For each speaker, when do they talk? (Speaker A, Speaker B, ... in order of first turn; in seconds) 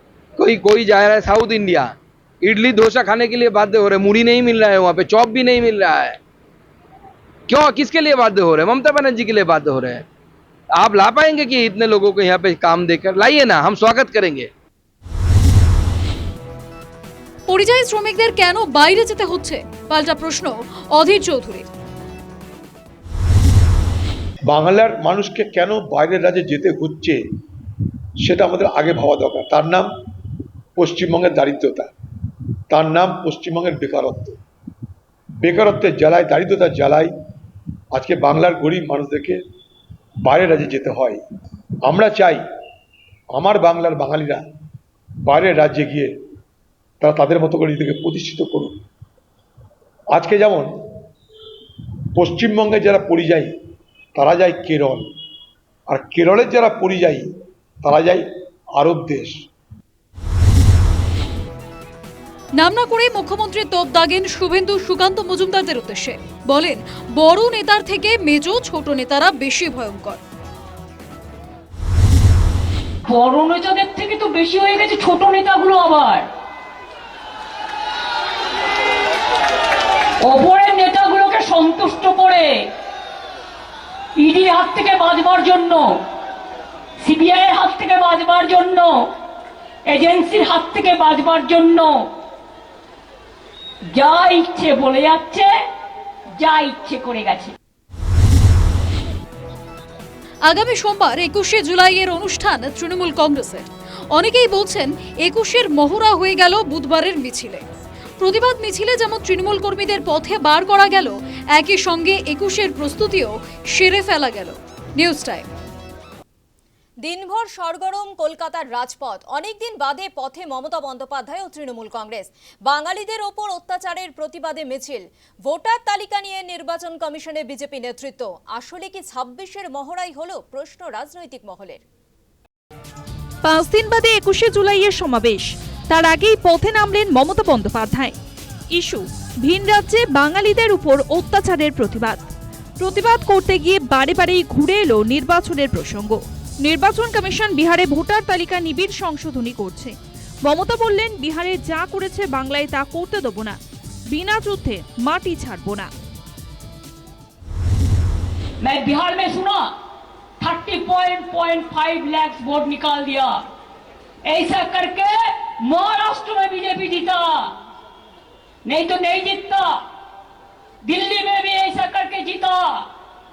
Speaker A: 0.4-6.2, 7.5-10.0, 10.8-14.5
Speaker B: 17.5-21.7, 62.6-70.2, 100.5-107.6, 108.2-115.5
Speaker C: 24.5-27.2, 28.2-29.9, 30.8-31.9, 32.7-34.4, 35.4-37.1, 37.9-39.4, 40.2-41.2, 41.8-42.4, 43.3-44.4, 45.2-46.1, 47.0-48.7, 50.1-50.8, 52.1-53.5, 54.1-55.1, 55.9-57.3, 57.8-59.4
Speaker D: 73.0-76.2, 80.2-82.5, 84.2-85.8, 87.0-89.0, 89.9-91.9, 93.9-95.5, 96.4-97.5, 158.6-159.7, 160.4-163.4, 164.3-167.5, 168.7-169.8, 170.8-172.8
Speaker E: 117.0-131.8
Speaker F: 133.4-138.1, 138.7-142.2, 142.8-153.6, 154.1-155.9